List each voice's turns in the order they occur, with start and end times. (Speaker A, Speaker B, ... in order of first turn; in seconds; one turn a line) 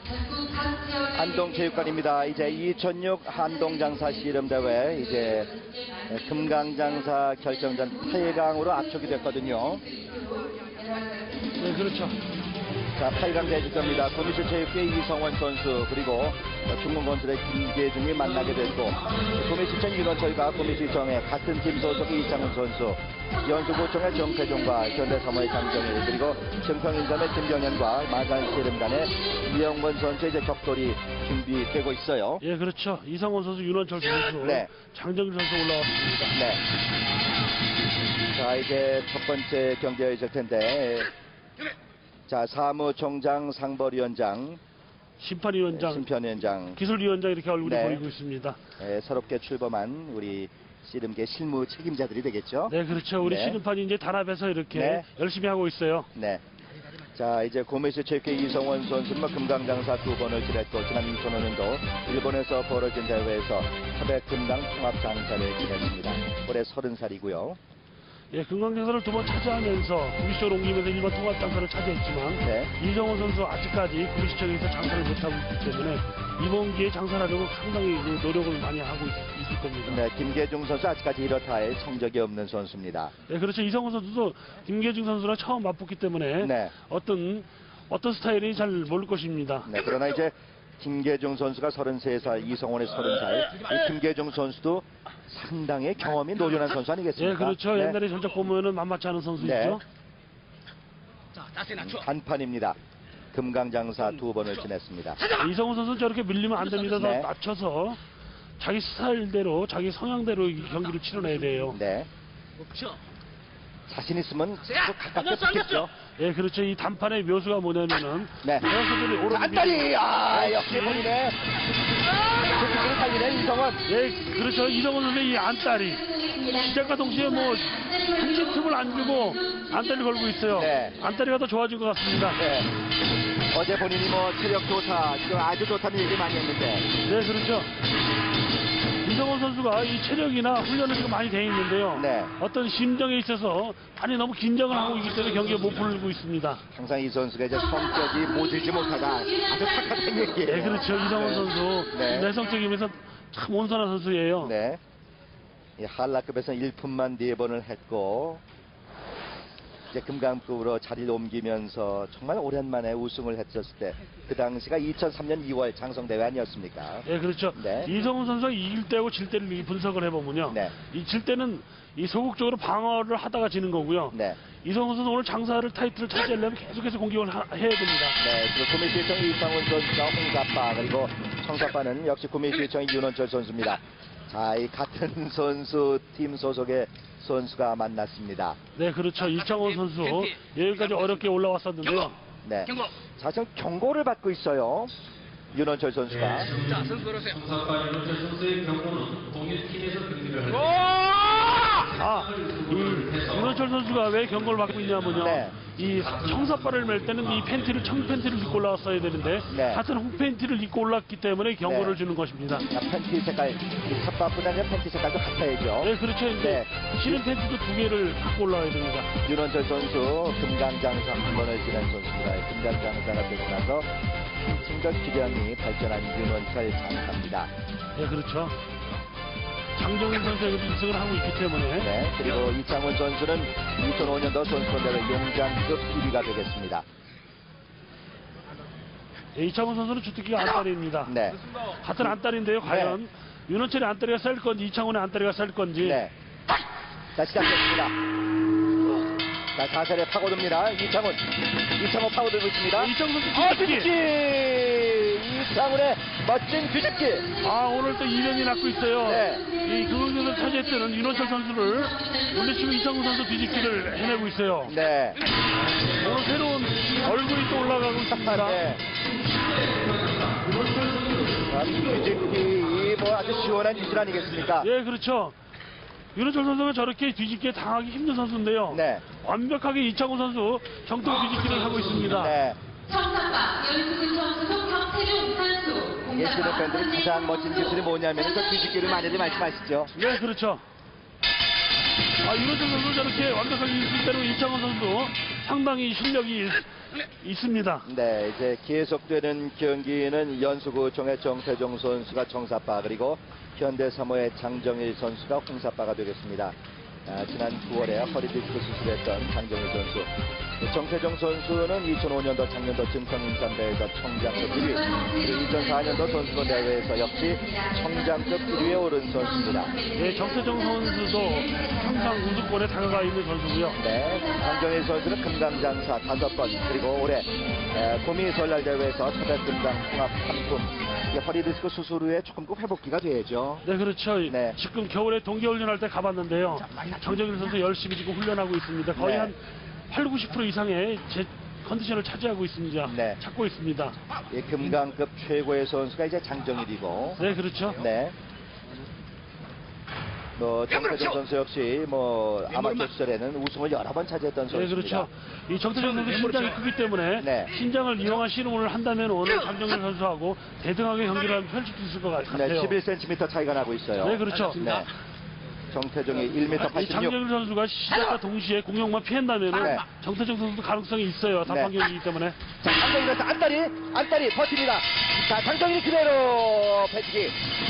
Speaker A: 1.1-5.5
Speaker A: 6.1-9.9
Speaker B: 11.6-12.2
Speaker A: 13.0-32.4
Speaker C: 19.0-19.4
Speaker B: 32.4-36.4
Speaker A: 34.4-34.7
Speaker A: 36.4-36.6
Speaker A: 38.3-41.1
Speaker A: 42.3-44.6
Speaker B: 45.2-46.0
Speaker A: 45.7-46.8
Speaker B: 46.8-48.6
Speaker A: 47.6-48.0
Speaker A: 48.8-53.6
Speaker B: 52.7-56.1
Speaker A: 54.7-55.1
Speaker A: 56.1-56.4
Speaker A: 57.1-67.6
Speaker B: 68.3-80.0
Speaker A: 72.4-72.7
Speaker A: 79.9-83.1
Speaker B: 83.3-89.7
Speaker A: 86.4-86.7
Speaker A: 89.7-98.0
Speaker B: 97.2-99.8
Speaker A: 99.4-99.8
Speaker A: 101.6-102.8
Speaker A: 103.3-105.2
Speaker B: 105.3-108.0
Speaker A: 106.9-107.3
Speaker B: 108.6-111.8
Speaker A: 111.7-112.1
Speaker A: 113.9-115.9
Speaker B: 116.2-121.1
Speaker A: 119.3-121.4
Speaker A: 122.4-123.8
Speaker B: 123.9-132.4
Speaker A: 130.5-131.0
Speaker A: 132.4-132.7
Speaker A: 133.5-136.9
Speaker B: 137.0-137.7
Speaker B: 139.0-146.6
Speaker A: 141.9-142.3
Speaker A: 146.7-152.3
Speaker B: 150.5-154.5
Speaker A: 154.4-154.8
Speaker A: 155.8-158.4
Speaker A: 159.9-167.9
Speaker B: 167.1-178.2
Speaker A: 174.1-174.4
Speaker A: 178.2-188.6
Speaker B: 188.8-192.2
Speaker A: 192.4-194.9
Speaker A: 195.5-196.5
Speaker C: 196.3-203.5
Speaker B: 201.9-212.7
Speaker A: 205.2-205.6
Speaker C: 205.9-208.4
Speaker A: 209.5-209.8
Speaker A: 211.7-212.0
Speaker A: 212.7-217.2
Speaker B: 215.8-219.1
Speaker A: 219.2-227.5
Speaker B: 228.0-228.6
Speaker B: 229.8-231.9
Speaker A: 231.8-236.8
Speaker B: 239.3-241.2
Speaker A: 241.1-241.4
Speaker B: 241.8-246.0
Speaker A: 242.6-243.0
Speaker A: 245.8-246.1
Speaker A: 247.2-247.9
Speaker A: 249.6-257.3
Speaker B: 252.8-253.9
Speaker B: 257.4-264.8
Speaker A: 259.0-259.5
Speaker A: 264.7-265.2
Speaker C: 265.5-267.4
Speaker B: 265.9-268.6
Speaker A: 268.1-268.8
Speaker C: 269.3-271.6
Speaker A: 271.5-274.7
Speaker B: 274.6-275.4
Speaker B: 276.1-282.4
Speaker A: 278.7-279.1
Speaker A: 282.1-282.6
Speaker D: 282.9-286.1
Speaker A: 286.1-289.9
Speaker B: 289.9-290.6
Speaker B: 292.2-297.9
Speaker A: 297.9-306.6
Speaker A: 307.1-310.1
Speaker A: 310.6-319.8
Speaker B: 319.9-323.8
Speaker A: 323.8-333.6
Speaker B: 333.6-339.4
Speaker A: 334.3-334.6
Speaker A: 339.0-339.3
Speaker B: 339.9-344.0
Speaker A: 342.9-343.2
Speaker A: 344.3-347.2
Speaker B: 347.2-347.8
Speaker A: 347.8-348.1
Speaker A: 350.4-355.1
Speaker B: 354.5-362.8
Speaker A: 357.2-357.5
Speaker A: 362.3-364.9
Speaker B: 364.0-364.6
Speaker A: 365.7-367.2
Speaker B: 366.6-372.4
Speaker A: 369.6-369.8
Speaker A: 371.5-371.8
Speaker A: 372.6-377.4